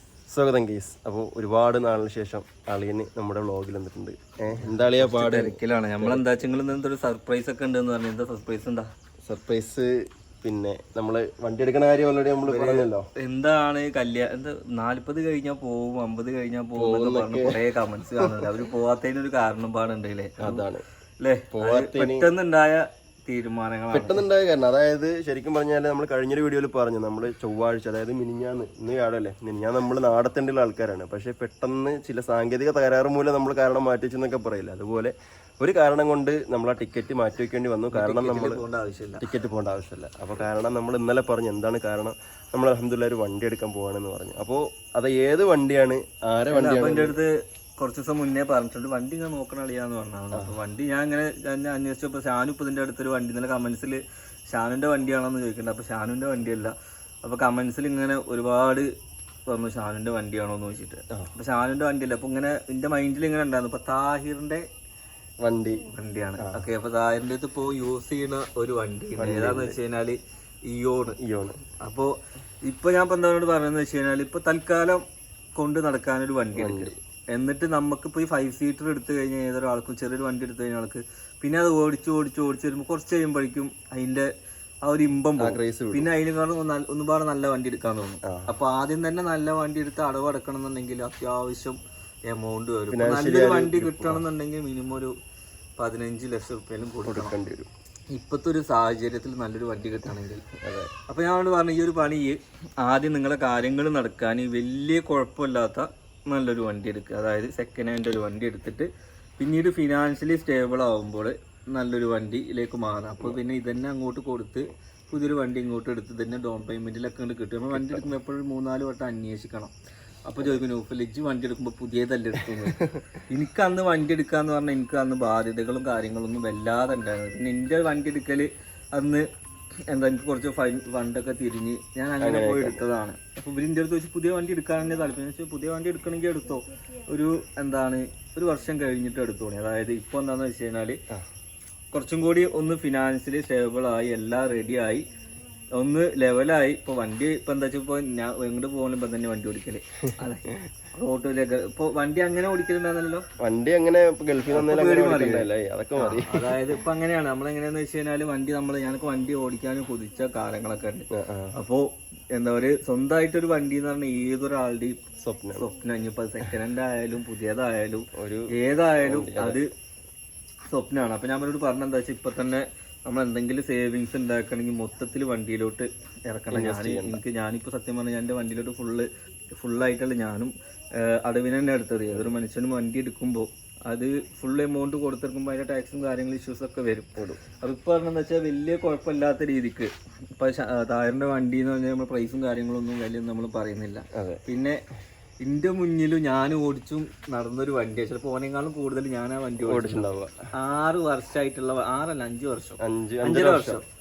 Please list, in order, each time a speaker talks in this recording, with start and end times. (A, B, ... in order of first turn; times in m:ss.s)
0:00.3-0:06.2 A
0:04.5-0:08.9 B
0:09.2-0:13.0 A
0:12.4-0:24.2 B
0:16.8-0:17.6 A
0:18.2-0:18.5 A
0:20.4-0:20.8 A
0:21.5-0:22.3 A
0:23.9-0:38.6 A
0:37.9-0:39.2 B
0:39.2-0:47.2 A
0:46.5-0:58.9 B
0:59.5-1:04.7 B
1:05.4-1:06.6 A
1:05.8-1:11.2 B
1:09.2-1:09.8 A
1:11.2-1:11.6 A
1:11.8-1:24.3 B
1:16.5-1:16.9 A
1:24.8-1:35.2 B
1:25.4-1:26.1 A
1:28.2-1:28.5 A
1:32.9-1:34.2 A
1:35.8-1:37.4 B
1:37.1-1:37.7 A
1:38.1-1:40.4 B
1:40.6-1:40.9 A
1:41.1-1:59.7 B
1:57.7-1:58.0 A
2:00.3-2:02.8 B
2:03.3-2:09.3 B
2:09.9-2:21.0 B
2:12.2-2:12.8 A
2:21.9-2:25.1 B
2:25.7-2:33.2 B
2:33.4-2:36.6 A
2:34.5-2:49.7 B
2:41.1-2:41.6 A
2:45.2-2:45.7 A
2:48.1-2:49.6 A
2:50.7-3:14.8 B
2:56.5-2:57.2 A
3:14.1-3:14.4 A
3:15.4-3:23.8 B
3:19.6-3:20.3 A
3:22.8-3:23.8 A